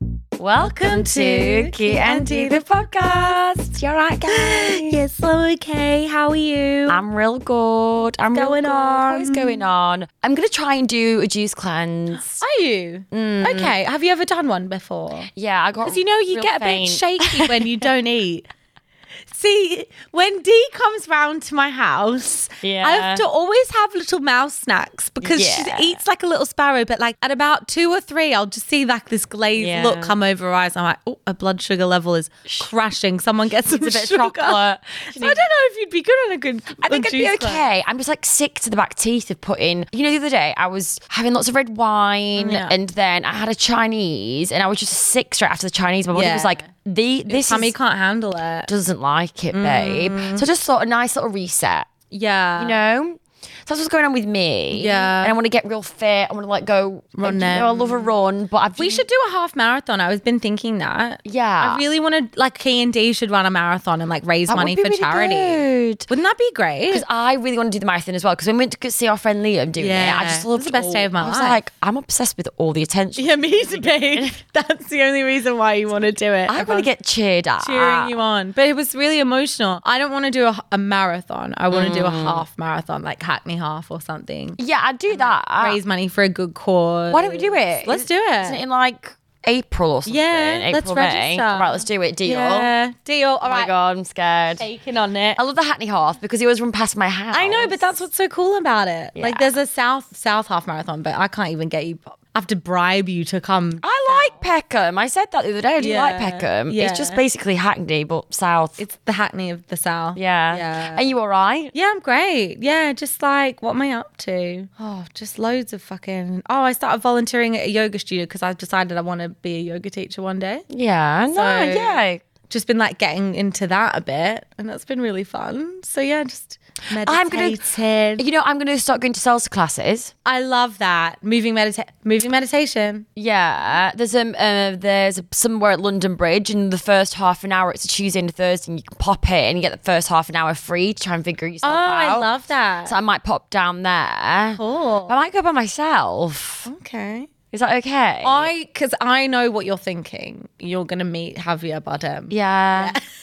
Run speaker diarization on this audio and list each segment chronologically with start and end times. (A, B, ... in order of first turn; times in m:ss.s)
0:00.4-0:05.0 A
0:00.6-0:03.4 B
0:04.3-0:07.0 B
0:06.9-0:12.4 A
0:08.3-0:09.6 B
0:12.4-0:15.3 B
0:13.1-0:13.8 A
0:15.4-0:17.9 A
0:15.8-0:18.5 B
0:19.3-0:34.6 B
0:22.6-0:23.2 A
0:25.2-0:26.0 A
0:29.6-0:30.2 A
0:33.6-0:35.4 A
0:35.1-0:37.7 B
0:36.8-0:47.7 A
0:42.4-0:42.7 B
0:46.1-0:46.7 B
0:47.3-0:48.7 B
0:48.7-0:51.9 A
0:49.5-0:50.4 B
0:52.1-0:52.8 B
0:52.6-0:59.1 A
0:54.7-0:55.4 B
0:57.2-0:58.1 B
0:58.8-1:07.0 B
1:01.2-1:01.8 A
1:04.5-1:06.1 A
1:06.9-1:14.4 A
1:09.8-1:11.6 B
1:13.2-1:16.9 B
1:16.5-1:18.2 A
1:17.6-1:24.6 B
1:21.7-1:22.4 A
1:24.6-1:25.8 A
1:25.1-1:28.6 B
1:27.1-1:32.7 A
1:30.1-1:33.7 B
1:33.4-1:34.7 A
1:34.6-1:35.4 B
1:35.4-1:37.8 A
1:37.3-1:44.4 B
1:39.2-1:39.5 A
1:43.8-1:48.8 A
1:45.8-1:47.2 B
1:48.8-1:51.0 B
1:50.2-1:51.7 A
1:51.7-2:00.6 B
2:00.7-2:02.2 A
2:01.3-2:08.2 B
2:07.0-2:10.1 A
2:10.2-2:13.1 B
2:13.2-2:22.3 A
2:21.6-2:22.9 B
2:22.8-2:26.7 A
2:24.6-2:25.2 B
2:26.7-2:27.3 B
2:27.5-2:28.5 A
2:28.2-2:33.0 B
2:32.3-2:33.0 A